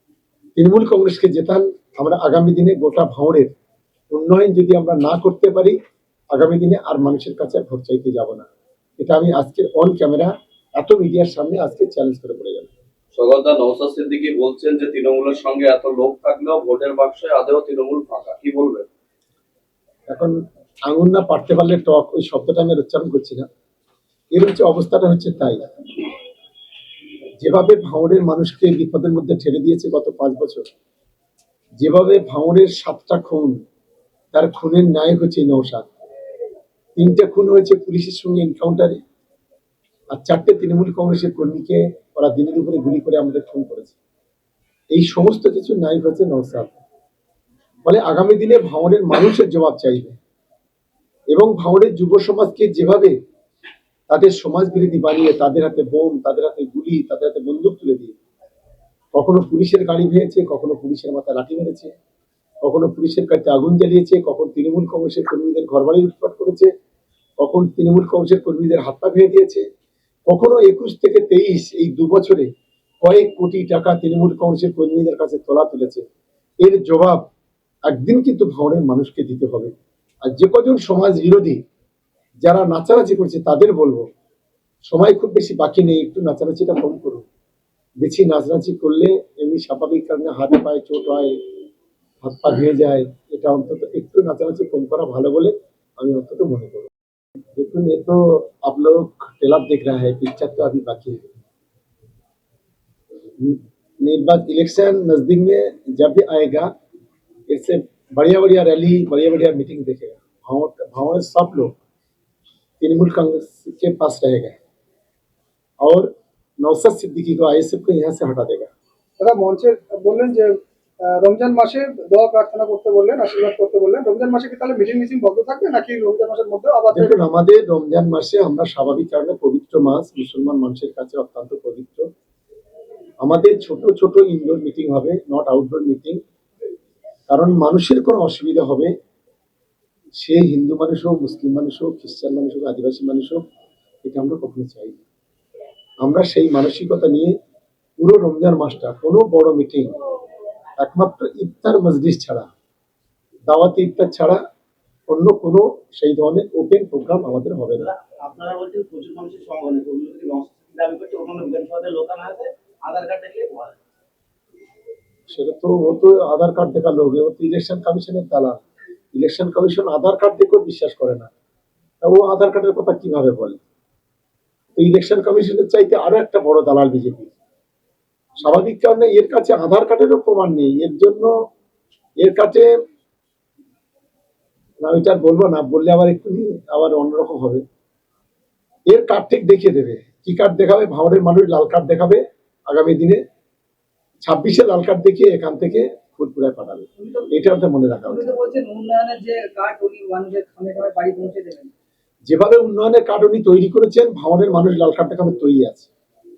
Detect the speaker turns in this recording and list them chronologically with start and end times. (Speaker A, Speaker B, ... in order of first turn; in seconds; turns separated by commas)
Speaker A: 0.6-3.5, Speaker A: 4.1-5.8, Speaker A: 6.3-8.5, Speaker A: 9.0-12.7, Speaker B: 13.1-18.9, Speaker A: 20.1-20.4, Speaker A: 20.9-23.4, Speaker A: 24.3-25.6, Speaker A: 27.4-30.7, Speaker A: 31.8-33.5, Speaker A: 34.3-35.8, Speaker A: 37.0-39.0, Speaker A: 40.1-44.0, Speaker A: 44.9-46.7, Speaker A: 47.9-50.1, Speaker A: 51.3-53.1, Speaker A: 54.1-58.1, Speaker A: 59.1-61.9, Speaker A: 62.6-66.7, Speaker A: 67.4-69.6, Speaker A: 70.3-72.5, Speaker A: 73.0-76.0, Speaker A: 76.6-77.3, Speaker A: 77.9-79.7, Speaker A: 80.2-81.6, Speaker A: 82.4-84.0, Speaker A: 84.9-87.2, Speaker A: 88.0-91.4, Speaker A: 92.2-96.9, Speaker A: 97.5-101.2, Speaker A: 103.4-106.7, Speaker A: 107.5-111.8, Speaker A: 112.8-114.6, Speaker A: 115.8-116.1, Speaker A: 116.6-118.7, Speaker C: 119.2-120.5, Speaker C: 121.0-127.2, Speaker A: 126.9-132.1, Speaker A: 133.2-136.2, Speaker A: 137.3-138.9, Speaker A: 140.2-143.4, Speaker A: 144.0-145.0, Speaker A: 146.0-147.3, Speaker A: 148.0-149.9, Speaker A: 150.8-152.5, Speaker A: 153.5-154.4, Speaker A: 155.1-157.9, Speaker D: 157.8-163.8, Speaker A: 165.3-168.6, Speaker A: 169.1-171.3, Speaker A: 172.0-173.6, Speaker A: 174.8-177.3, Speaker A: 178.4-181.3, Speaker A: 182.2-182.7, Speaker A: 184.8-187.6, Speaker A: 188.9-193.2, Speaker A: 194.2-198.3, Speaker C: 198.1-201.7, Speaker A: 202.3-205.9